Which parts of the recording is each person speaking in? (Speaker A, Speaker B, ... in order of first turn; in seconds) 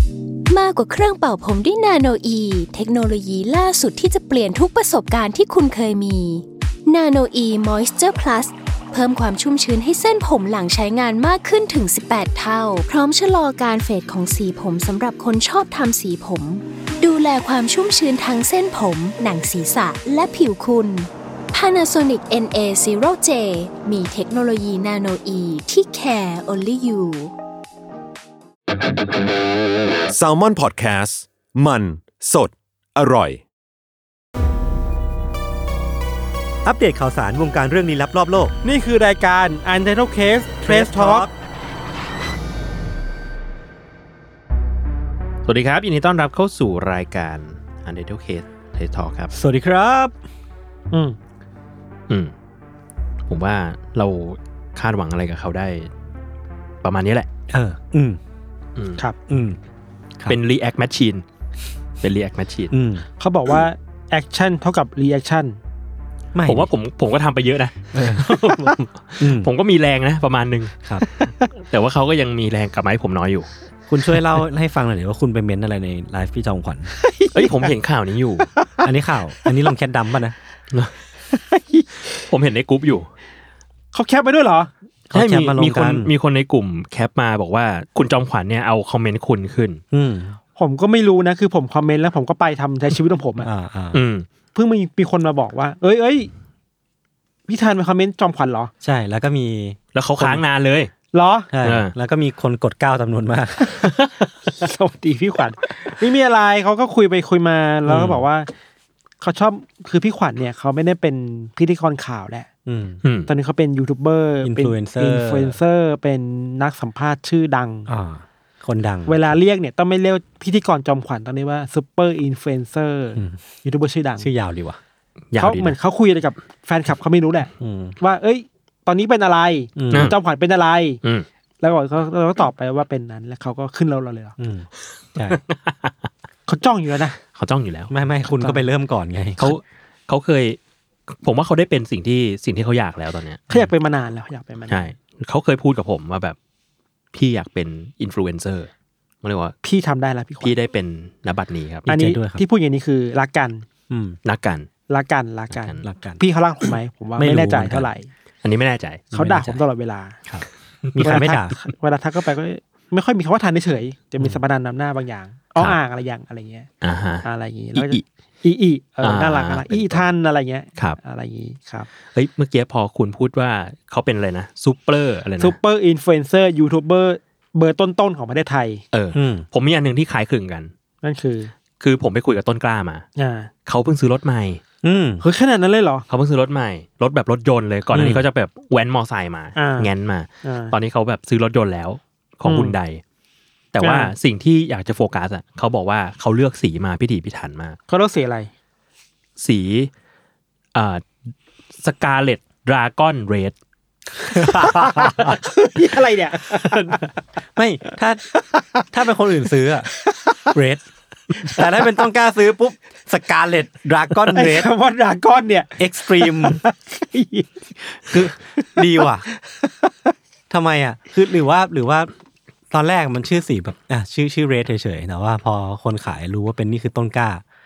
Speaker A: 0.5-27.3
Speaker B: 30.1-33.4
Speaker C: 36.6-38.5, 40.6-41.3, 49.3-50.2, 57.5-58.2, 59.3-59.6, 62.7-63.0, 66.3-66.7, 67.9-68.3, 69.2-69.5, 73.9-76.9, 78.8-80.3, 85.1-86.1, 89.9-90.4, 93.4-94.0, 98.8-100.4, 101.5-103.7, 107.8-108.2, 112.7-113.0, 114.4-115.5, 117.9-119.3, 124.2-124.8, 127.6-128.0, 129.8-130.1, 134.4-135.4, 137.9-139.5, 151.9-152.4, 153.9-154.2, 155.8-156.2, 157.2-157.9, 159.1-159.6, 160.2-161.5, 179.1-179.4, 184.8-185.2, 187.9-188.2, 204.3-205.3, 207.5-208.3, 208.8-209.9, 210.5-210.8, 211.4-214.7, 215.8-216.6, 218.0-219.2, 220.5-222.1, 222.7-227.4
Speaker D: 38.6-41.3, 50.9-51.2, 63.2-65.6, 71.1-71.5, 77.0-77.7, 78.6-78.8, 81.3-82.0, 83.9-84.7, 90.5-93.5, 94.5-96.3, 97.5-98.7, 101.1-101.5, 104.5-108.5, 109.2-112.5, 113.3-117.9, 119.1-124.3, 125.3-131.0, 131.6-134.3, 136.5-137.2, 138.3-138.6, 143.5-144.9, 149.6-150.6, 151.9-153.6, 154.9-158.1, 159.1-160.2, 161.0-166.7, 167.2-171.9, 175.4-178.8, 181.0-181.5, 183.2-183.5, 185.2-186.0, 189.6-189.9, 190.4-190.7, 192.4-192.7, 193.8-194.1, 197.9-198.5, 204.3-207.1, 208.3-208.8, 209.9-210.5, 214.3-219.9
Speaker E: 45.5-49.3, 53.3-55.9, 56.8-57.3, 58.8-59.0, 60.3-61.2, 62.0-62.7, 66.5-70.8, 71.5-73.5, 77.3-78.5, 82.3-83.1, 85.1-89.8, 93.9-94.2, 99.9-100.9, 101.6-101.9, 113.0-113.3, 125.3-125.8, 135.3-135.9, 137.3-137.9, 139.4-140.6, 141.2-143.5, 144.7-146.3, 147.1-148.7, 149.2-149.5, 150.4-151.9, 154.2-154.7, 155.5-155.8, 158.4-159.1, 166.8-168.0, 169.0-170.1, 172.1-175.5, 178.9-180.7, 181.8-183.1, 183.7-184.6, 186.1-193.0, 193.7-197.8, 199.4-199.9, 200.7-201.0, 201.8-203.5